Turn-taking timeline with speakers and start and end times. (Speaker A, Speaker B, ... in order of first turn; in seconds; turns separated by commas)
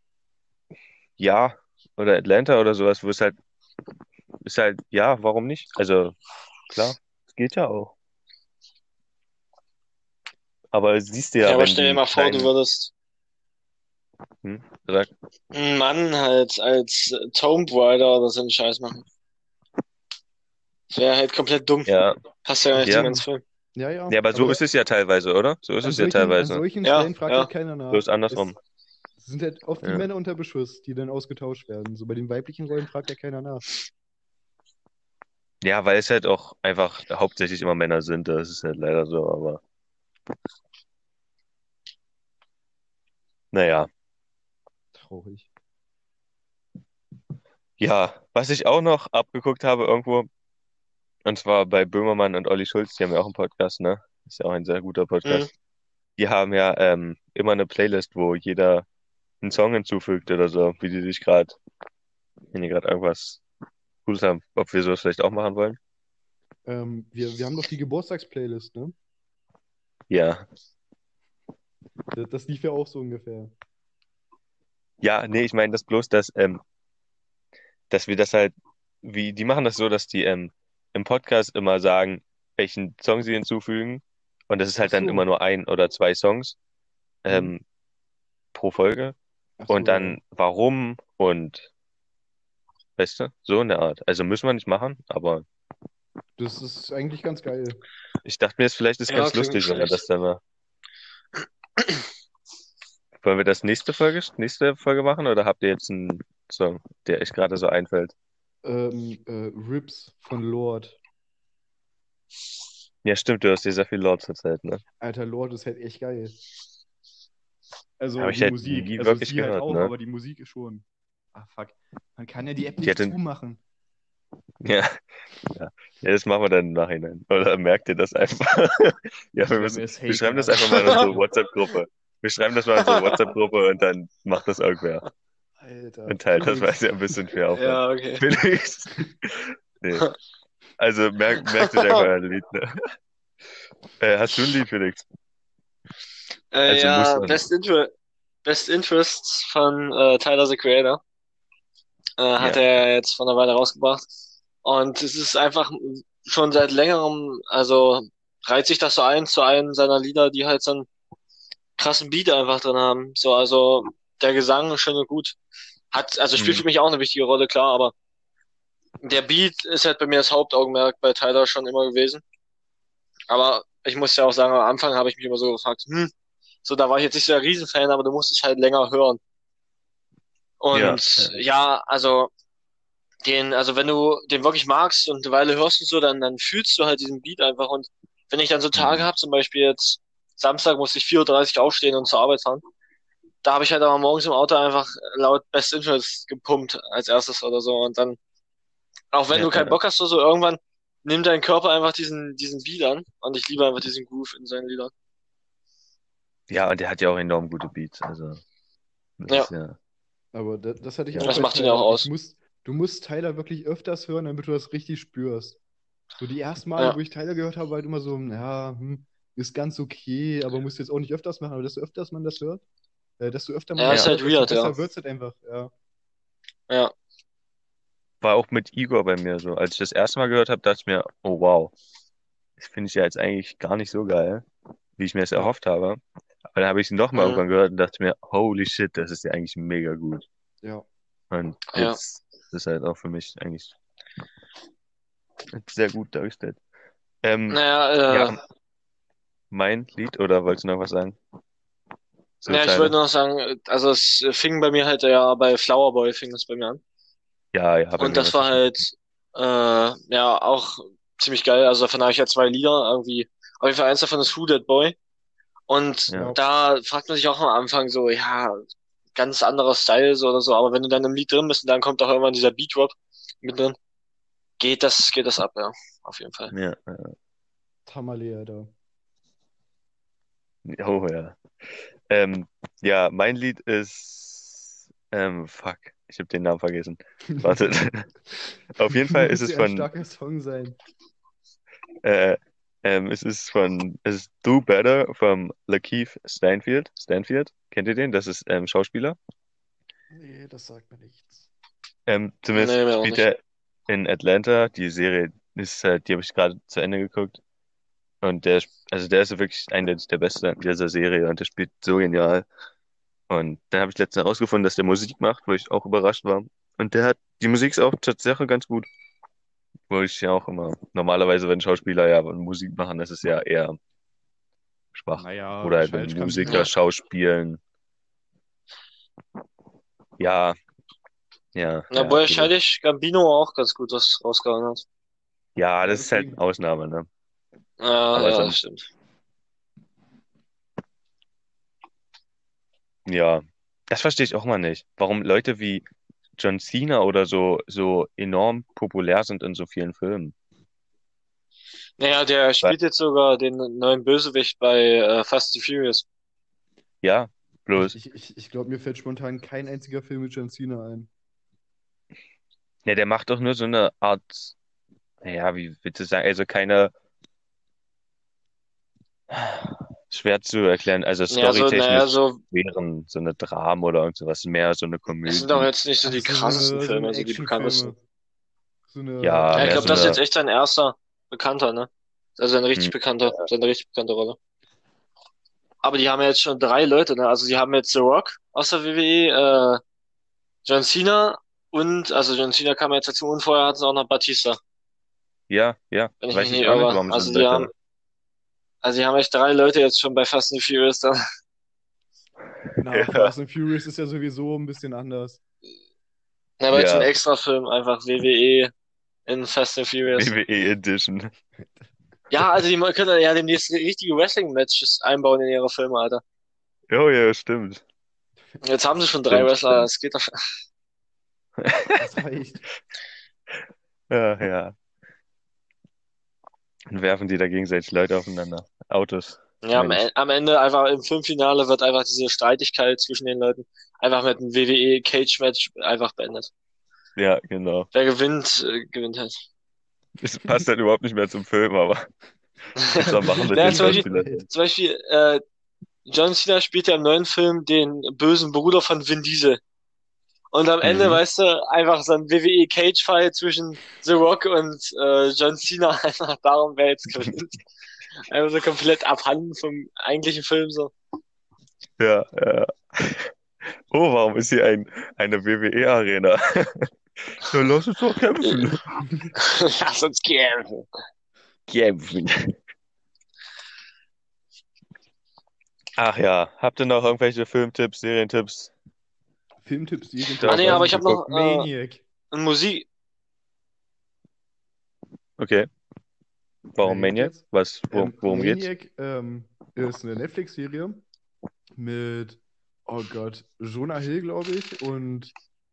Speaker A: 1.2-3.4, Speaker A: 4.4-6.2, Speaker A: 6.7-7.9, Speaker A: 10.7-12.5, Speaker B: 11.4-12.9, Speaker A: 14.4-15.1, Speaker B: 15.5-19.0, Speaker B: 20.9-21.9, Speaker A: 21.9-22.2, Speaker B: 22.4-23.4, Speaker C: 22.8-24.6, Speaker A: 22.8-23.1, Speaker A: 24.1-26.6, Speaker C: 25.8-28.6, Speaker B: 26.8-27.5, Speaker A: 27.9-28.6, Speaker C: 29.2-33.6, Speaker A: 29.8-30.1, Speaker A: 35.6-39.6, Speaker A: 43.5-43.9, Speaker C: 44.9-45.5, Speaker A: 47.8-50.3, Speaker A: 51.2-55.5, Speaker A: 56.2-58.9, Speaker A: 59.4-61.6, Speaker A: 62.5-63.4, Speaker A: 64.0-65.8, Speaker C: 66.6-69.0, Speaker A: 70.1-70.5, Speaker C: 72.1-73.5, Speaker A: 75.0-76.6, Speaker A: 77.9-86.6, Speaker C: 84.8-85.2, Speaker A: 87.2-87.6, Speaker C: 87.3-87.5, Speaker A: 88.5-89.2, Speaker C: 89.6-90.2, Speaker A: 89.7-91.7, Speaker A: 93.0-95.4, Speaker C: 96.4-97.8, Speaker A: 98.2-100.4, Speaker B: 99.1-100.0, Speaker A: 103.2-108.1, Speaker C: 108.6-111.0, Speaker A: 113.0-114.8, Speaker C: 115.0-116.3, Speaker C: 118.0-123.6, Speaker A: 118.2-119.9, Speaker A: 122.8-123.2, Speaker A: 124.6-135.0, Speaker C: 129.5-131.2, Speaker B: 132.8-133.2, Speaker C: 135.6-137.2, Speaker A: 136.1-140.1, Speaker B: 137.5-138.2, Speaker A: 140.8-142.8, Speaker B: 141.4-142.0, Speaker A: 144.0-145.0, Speaker B: 146.5-147.9, Speaker A: 146.7-147.4, Speaker B: 148.4-151.0, Speaker B: 152.2-154.0, Speaker B: 154.6-160.9, Speaker B: 161.8-165.3, Speaker B: 165.9-167.9, Speaker A: 166.3-166.6, Speaker B: 169.0-172.2, Speaker B: 173.3-176.1, Speaker B: 176.6-179.2, Speaker B: 180.6-182.3, Speaker A: 180.7-181.3, Speaker B: 183.2-192.6, Speaker A: 188.7-189.1, Speaker B: 193.4-198.2, Speaker B: 199.1-204.9, Speaker A: 199.3-199.8, Speaker A: 206.5-208.4, Speaker A: 209.2-209.8, Speaker C: 210.3-215.6, Speaker A: 211.1-211.4, Speaker B: 211.2-212.1, Speaker C: 216.2-222.6, Speaker C: 223.2-225.7, Speaker B: 223.8-224.8, Speaker A: 228.2-231.7, Speaker A: 232.6-234.4, Speaker A: 235.0-240.2, Speaker B: 237.1-237.4, Speaker A: 241.3-243.7, Speaker B: 241.7-242.0, Speaker A: 245.5-246.6, Speaker A: 247.2-248.3, Speaker B: 247.5-248.4, Speaker A: 249.5-251.2, Speaker A: 252.4-252.9, Speaker B: 252.5-256.8, Speaker A: 257.5-258.6, Speaker B: 258.0-264.9, Speaker B: 265.7-273.8, Speaker C: 266.1-266.4, Speaker B: 274.6-276.5, Speaker A: 276.5-277.1, Speaker C: 277.9-278.7, Speaker A: 280.6-281.4, Speaker A: 282.1-288.1, Speaker C: 287.3-287.7, Speaker A: 288.8-289.9, Speaker C: 288.8-290.8, Speaker A: 292.0-299.2, Speaker C: 300.1-301.5, Speaker A: 302.1-307.4, Speaker B: 302.5-303.2, Speaker A: 308.2-312.5, Speaker A: 313.3-318.9, Speaker A: 319.9-323.8, Speaker A: 324.9-327.6, Speaker C: 325.2-326.7, Speaker A: 330.2-330.6, Speaker A: 331.5-332.5, Speaker B: 331.9-334.8, Speaker A: 335.6-337.1, Speaker C: 335.8-336.4, Speaker B: 337.8-338.9, Speaker A: 338.1-338.6, Speaker A: 343.1-345.9, Speaker A: 346.4-350.3, Speaker B: 352.0-356.0, Speaker A: 357.0-357.9, Speaker C: 357.8-361.1, Speaker A: 362.8-364.5, Speaker A: 365.2-366.9, Speaker A: 369.3-375.7, Speaker B: 371.3-372.4, Speaker B: 375.2-377.9, Speaker C: 376.0-378.0, Speaker C: 378.9-380.2, Speaker A: 379.2-380.2, Speaker B: 379.5-384.4, Speaker A: 382.8-383.4, Speaker B: 385.8-389.8, Speaker B: 390.6-394.6, Speaker A: 395.5-397.7, Speaker B: 396.2-397.7, Speaker B: 398.8-401.2, Speaker C: 402.8-405.4, Speaker A: 402.9-403.3, Speaker B: 406.6-408.7, Speaker A: 406.7-407.1, Speaker B: 409.3-410.3, Speaker A: 410.1-411.3, Speaker B: 412.3-416.2, Speaker A: 416.9-417.8, Speaker B: 418.6-420.4, Speaker A: 419.3-419.9, Speaker A: 421.6-422.0, Speaker C: 422.0-422.6, Speaker A: 424.1-424.7, Speaker A: 426.9-430.0, Speaker B: 429.6-436.5, Speaker A: 437.2-437.9, Speaker B: 437.9-439.4, Speaker A: 440.2-442.1, Speaker C: 442.8-444.4, Speaker A: 442.9-444.4, Speaker B: 443.5-445.4, Speaker B: 446.1-449.6, Speaker B: 450.5-457.6, Speaker A: 450.8-451.2, Speaker B: 458.3-460.9, Speaker A: 462.0-463.3, Speaker A: 463.9-468.8, Speaker B: 468.4-468.7, Speaker C: 469.0-469.3, Speaker B: 469.4-470.9, Speaker A: 471.7-472.5, Speaker A: 476.0-478.7, Speaker C: 479.6-482.0, Speaker A: 480.4-481.0, Speaker B: 480.4-481.7, Speaker B: 482.3-482.9, Speaker A: 485.4-485.7, Speaker A: 486.7-488.7, Speaker C: 486.8-491.0, Speaker C: 491.8-495.3